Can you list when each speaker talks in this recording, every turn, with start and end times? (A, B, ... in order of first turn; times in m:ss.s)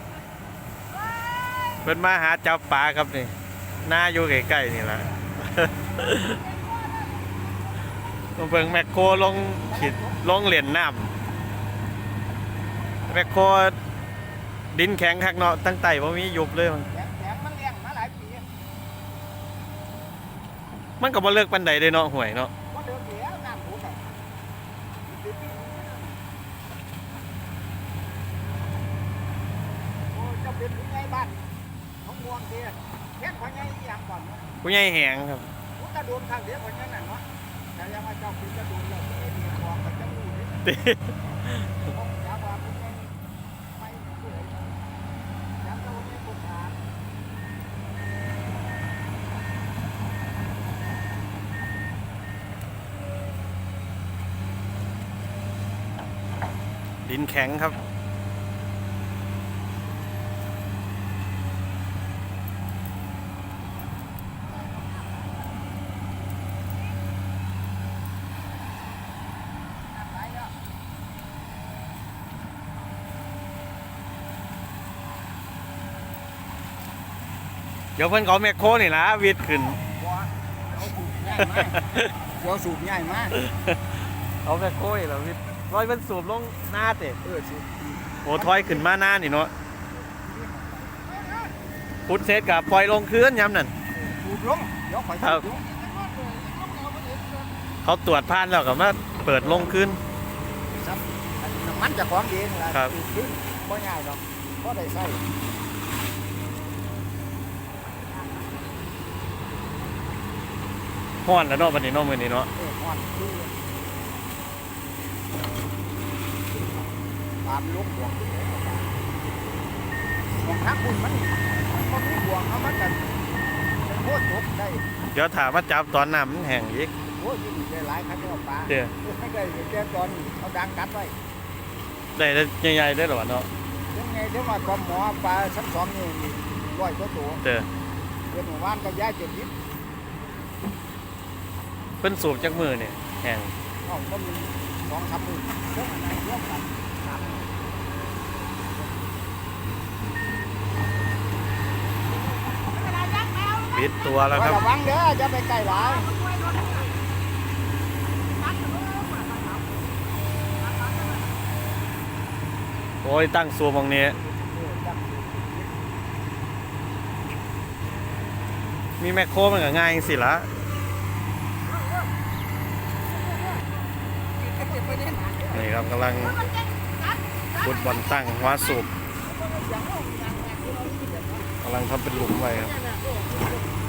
0:00.9-0:01.9 A
0:01.8-0:03.3 B
0:03.8-0:06.4 B
0:06.0-0:07.4 A
0:08.4-0:11.1 B
0:09.7-0:10.2 C
0:13.1-0:13.7 B
0:14.7-0:16.9 B
0:16.9-0:18.4 C
0:21.0-0:22.5 B
0:22.7-0:24.0 C
0:25.0-0:26.2 C
0:30.1-0:31.4 C
0:32.0-0:34.4 C
0:34.6-0:35.5 B
0:35.8-0:37.2 C
0:37.7-0:40.6 C
0:40.6-0:41.8 B
0:41.9-0:43.1 C
0:43.8-0:44.7 C
0:45.6-0:46.8 C
0:57.0-0:57.8 B
1:10.0-1:10.5 C
1:18.0-1:19.8 B
1:20.0-1:21.8 C
1:21.4-1:22.0 B
1:22.4-1:23.3 C
1:23.4-1:23.8 B
1:24.4-1:27.2 B
1:27.2-1:28.9 C
1:28.2-1:29.5 B
1:29.9-1:31.5 C
1:32.1-1:33.7 B
1:33.9-1:35.7 C
1:35.2-1:35.4 B
1:37.8-1:40.0 B
1:39.4-1:39.7 C
1:40.7-1:45.2 C
1:51.2-1:52.5 B
1:52.6-1:53.6 C
1:57.4-1:58.9 C
2:00.4-2:03.1 C
2:03.8-2:04.8 C
2:05.1-2:06.9 B
2:07.1-2:11.1 C
2:12.1-2:13.5 B
2:13.9-2:17.4 C
2:17.4-2:17.7 B
2:18.3-2:19.5 C
2:22.0-2:23.5 B
2:23.8-2:27.6 C
2:32.7-2:34.3 A
2:33.7-2:34.6 B
2:34.3-2:36.1 C
2:35.7-2:37.0 A
2:38.2-2:39.9 A
2:40.6-2:41.4 A
2:43.0-2:44.2 B
2:44.2-2:45.7 C
2:49.0-2:50.5 B
2:54.4-2:55.4 A
2:55.0-2:55.4 C
2:55.5-2:56.4 B
2:56.1-2:58.8 A
2:57.6-2:58.9 B
2:59.2-3:01.4 C
3:01.6-3:02.8 B